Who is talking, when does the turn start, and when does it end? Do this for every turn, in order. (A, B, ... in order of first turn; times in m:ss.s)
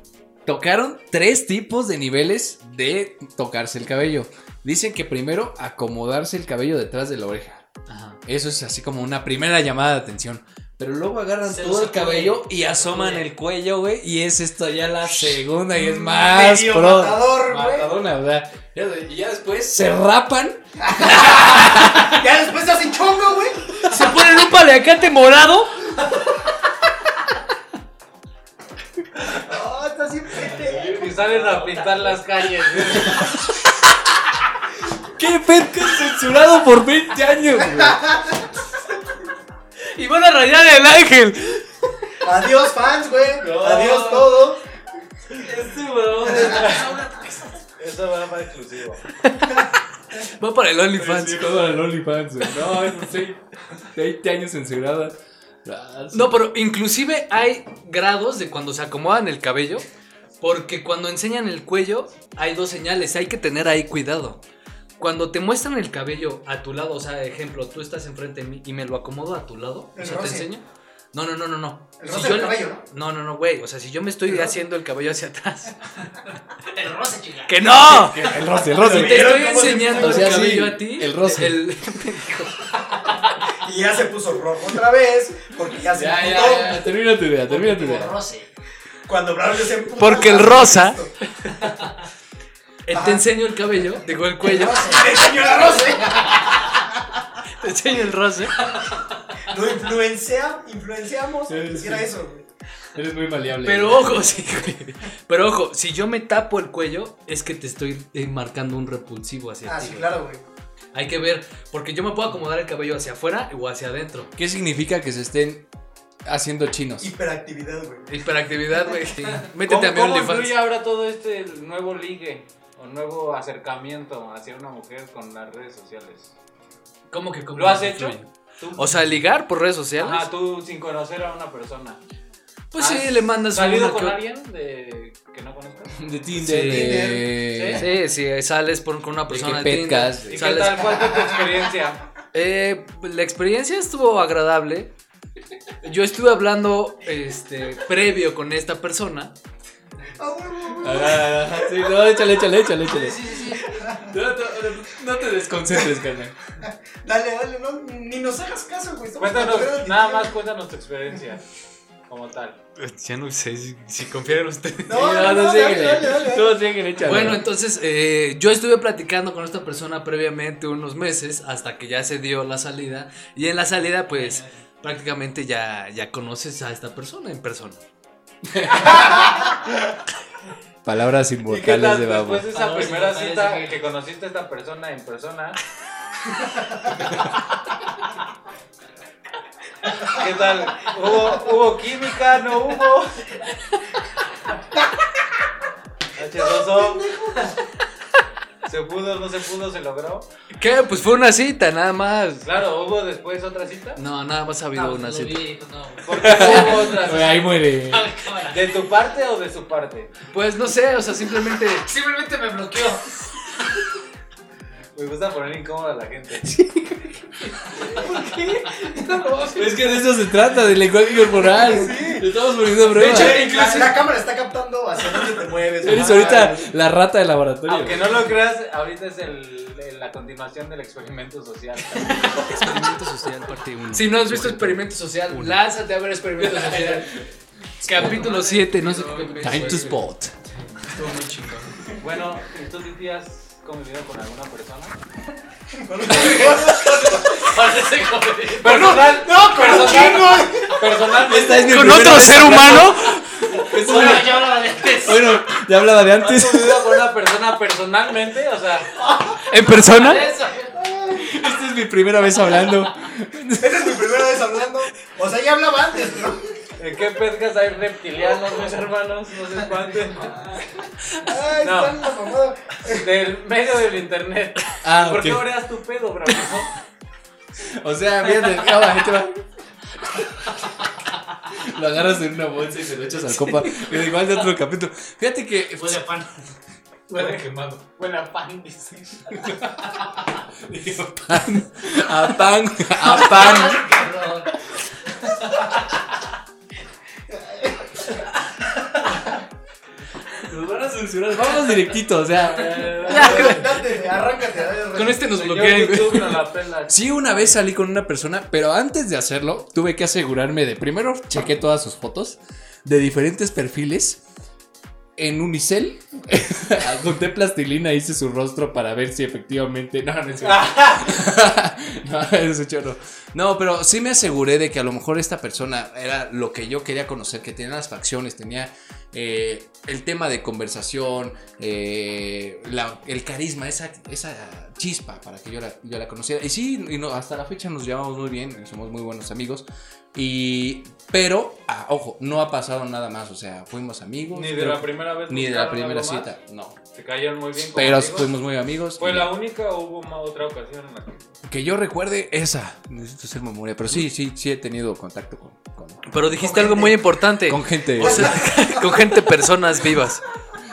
0:00.5-0:07.6 A
0:07.9-0:08.2 B
0:08.2-0:20.6 A
0:11.5-0:13.3 B
0:15.7-0:18.0 C
0:21.0-0:23.7 C
0:21.1-0:22.0 A
0:23.8-0:26.0 B
0:29.3-0:31.0 C
0:30.8-0:33.4 D
0:35.2-0:38.1 A
0:37.6-0:38.4 C
0:40.0-0:42.1 B
0:42.2-0:44.6 C
0:43.5-0:44.0 A
0:45.4-0:46.9 B
0:46.2-0:46.7 C
0:46.3-0:47.4 E
0:46.4-0:47.0 D
0:47.8-0:49.0 D
0:49.2-0:51.6 B
0:51.0-0:53.4 A
0:52.4-0:53.2 B
0:53.9-0:56.4 A
0:56.1-0:59.9 B
1:00.4-1:04.4 B
1:05.0-1:16.0 B
1:10.0-1:10.5 C
1:12.0-1:12.8 C
1:14.3-1:14.6 C
1:16.7-1:17.7 E
1:17.5-1:23.2 B
1:17.8-1:21.6 A
1:18.7-1:20.5 C
1:23.6-1:26.8 C
1:25.9-1:28.2 A
1:27.5-1:28.5 E
1:29.1-1:31.1 C
1:30.0-1:31.9 B
1:32.8-1:35.1 B
1:32.9-1:33.3 C
1:34.4-1:36.7 C
1:37.6-1:38.8 B
1:39.5-1:42.5 C
1:41.5-1:42.1 A
1:43.0-1:44.2 A
1:43.6-1:50.1 B
1:49.6-1:50.4 C
1:50.9-1:54.3 B
1:54.4-1:55.7 A
1:56.2-1:57.1 A
1:57.0-1:58.1 C
1:58.1-2:00.6 B
1:59.6-2:06.3 D
2:07.1-2:10.3 B
2:07.6-2:09.0 D
2:10.0-2:12.0 D
2:12.7-2:14.2 B
2:12.8-2:15.9 D
2:16.0-2:17.9 A
2:16.4-2:16.9 B
2:16.6-2:17.4 C
2:17.4-2:17.8 D
2:17.7-2:21.0 B
2:19.3-2:20.4 A
2:20.3-2:22.1 D
2:21.0-2:21.4 C
2:22.3-2:24.9 B
2:25.8-2:29.3 B
2:30.2-2:32.0 C
2:30.8-2:33.2 A
2:32.8-2:33.6 B
2:33.5-2:34.1 C
2:34.0-2:36.4 A
2:36.6-2:40.3 C
2:39.2-2:41.4 D
2:42.1-2:42.6 D
2:42.8-2:46.2 B
2:44.9-2:46.6 C
2:45.0-2:47.4 A
2:47.0-2:57.8 B
2:54.1-2:54.5 E
2:58.5-2:59.4 A
3:00.8-3:02.5 A
3:01.5-3:05.6 D
3:02.5-3:03.8 E
3:10.0-3:13.2 D
3:16.2-3:17.0 D
3:16.4-3:17.6 C
3:18.6-3:20.3 D
3:20.6-3:22.5 B
3:22.4-3:24.0 D
3:24.0-3:25.5 B
3:24.7-3:28.7 E
3:26.0-3:27.4 D
3:26.1-3:28.1 A
3:26.3-3:26.9 B
3:28.5-3:30.1 D
3:30.3-3:31.9 B
3:31.8-3:33.0 E
3:35.0-3:36.4 D
3:36.5-3:37.1 A
3:37.8-3:40.0 B
3:39.6-3:43.5 A
3:41.4-3:42.3 C
3:42.9-3:44.0 B
3:42.9-3:46.6 C
3:45.8-3:48.2 A
3:45.9-3:46.5 B
3:47.7-3:52.8 D
3:52.3-3:53.0 B
3:52.6-3:54.0 E
3:53.2-3:55.6 A
3:53.9-3:57.2 B
3:56.4-3:57.3 A
3:57.8-3:58.3 A
3:57.8-4:01.7 B
3:58.0-3:59.5 E
3:59.4-4:00.3 A
4:02.0-4:05.0 D
4:05.7-4:07.4 C
4:06.2-4:10.6 E
4:08.5-4:12.8 D
4:08.8-4:10.8 C
4:11.2-4:17.0 A
4:11.3-4:13.2 B
4:13.6-4:15.4 E
4:16.1-4:18.9 D
4:19.4-4:20.3 B
4:19.8-4:20.8 E
4:20.7-4:21.3 C
4:21.1-4:23.9 A
4:23.6-4:26.5 C
4:26.8-4:30.4 D
4:31.2-4:33.1 C
4:31.6-4:32.0 D
4:32.9-4:36.7 D
4:34.8-4:35.5 A
4:37.7-4:39.4 A
4:41.5-4:46.1 A
4:45.8-4:46.3 E
4:47.1-4:47.8 B
4:47.1-4:49.4 D
4:49.4-4:50.0 A
4:50.6-4:53.9 A
4:53.0-4:54.5 E
4:57.3-4:58.0 C
5:00.5-5:03.1 A
5:02.4-5:03.7 D
5:03.0-5:05.3 C
5:03.1-5:04.0 B
5:04.9-5:06.4 B
5:05.3-5:07.6 D
5:06.9-5:14.2 A
5:15.2-5:46.8 A
5:20.4-5:21.2 D
5:44.3-5:46.3 D
5:46.9-5:48.3 D
5:47.7-5:49.3 A
5:49.0-5:51.3 D
5:51.5-5:56.1 A
5:56.1-6:00.2 B
5:56.3-5:57.1 C
5:57.5-5:58.4 A
5:58.0-5:59.0 C